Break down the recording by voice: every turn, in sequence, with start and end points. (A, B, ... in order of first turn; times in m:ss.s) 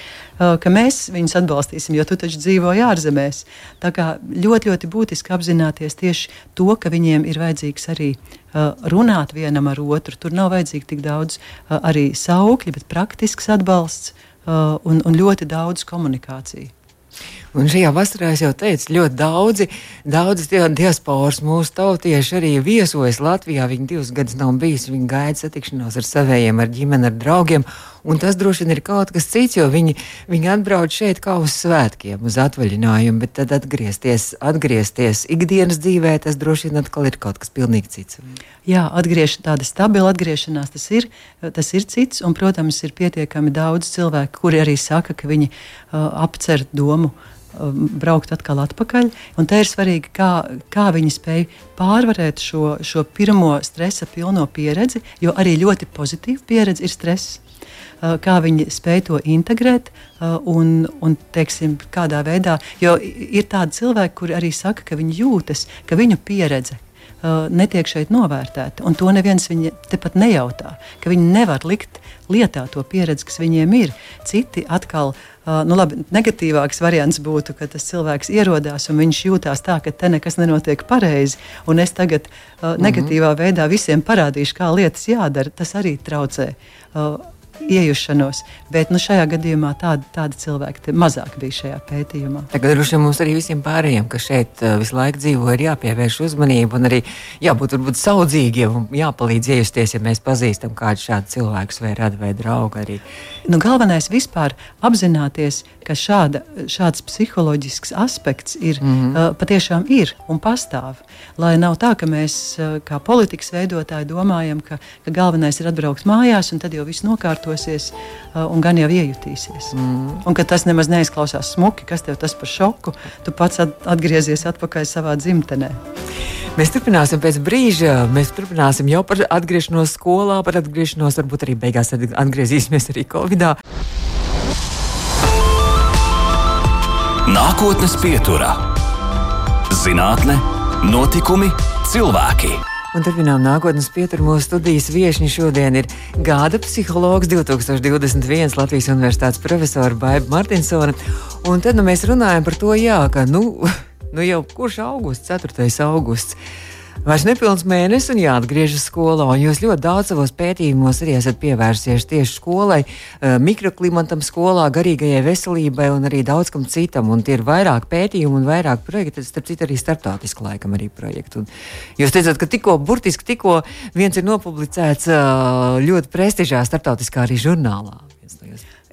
0:00.4-0:16.7 A
0:17.5-0:38.2 B
0:38.6-0:57.4 A
0:58.0-1:32.5 A
1:22.8-1:23.1 B
1:32.5-1:43.0 B
1:43.4-2:05.8 A
1:48.8-1:49.2 B
1:59.7-2:00.2 B
2:06.6-2:13.5 B
2:17.2-2:18.6 C
2:19.7-2:22.6 C
2:22.9-2:36.4 B
2:37.0-2:51.5 B
2:52.0-2:58.6 B